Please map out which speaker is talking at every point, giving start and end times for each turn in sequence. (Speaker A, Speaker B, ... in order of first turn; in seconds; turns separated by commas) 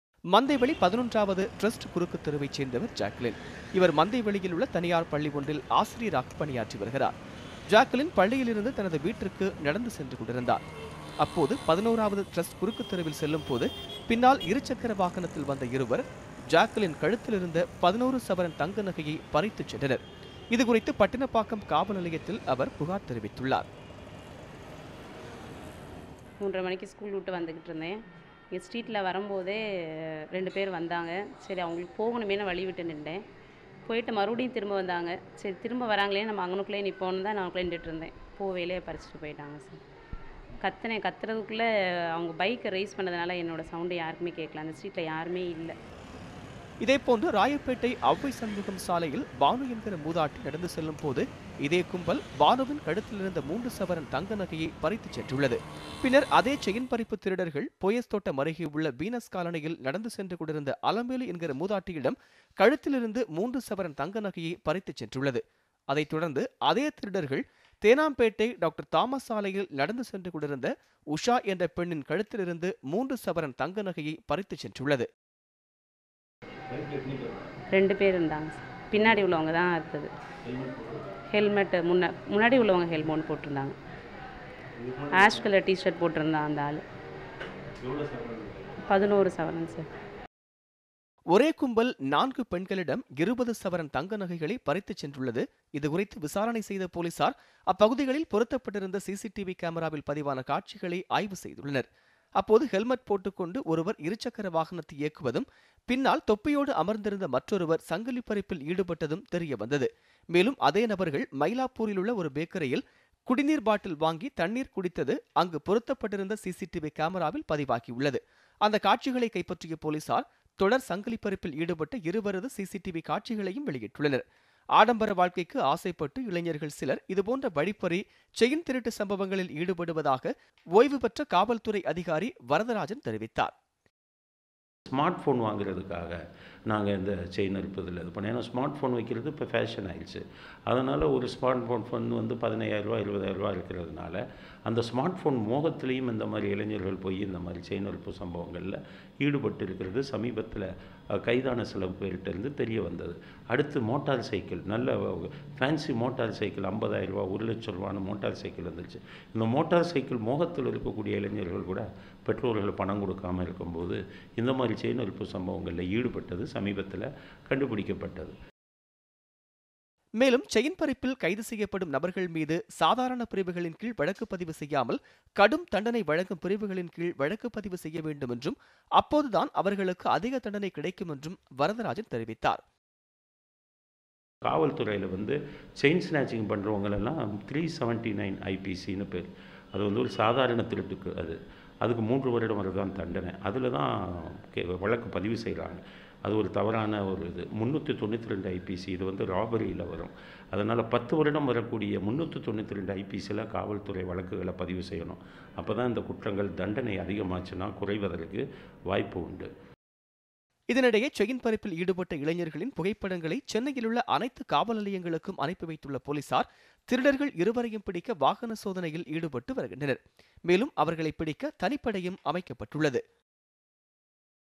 Speaker A: 0.3-7.1, Speaker A: 7.7-10.6, Speaker A: 11.2-20.0, Speaker A: 20.5-23.7, Speaker B: 26.4-27.9, Speaker B: 28.5-29.6, Speaker B: 30.3-33.2, Speaker B: 33.9-39.8, Speaker B: 40.6-45.8, Speaker A: 46.8-75.1, Speaker C: 76.7-77.5, Speaker B: 77.7-80.1, Speaker C: 80.5-81.0, Speaker B: 81.3-83.8, Speaker C: 84.8-85.4, Speaker B: 85.1-86.8, Speaker C: 87.8-88.7, Speaker B: 88.8-89.9, Speaker A: 91.3-101.9, Speaker A: 102.4-124.2, Speaker A: 124.8-133.5, Speaker C: 134.9-136.2, Speaker C: 136.7-150.7, Speaker C: 151.2-168.3, Speaker A: 170.2-182.6, Speaker C: 184.4-209.5, Speaker A: 210.7-223.0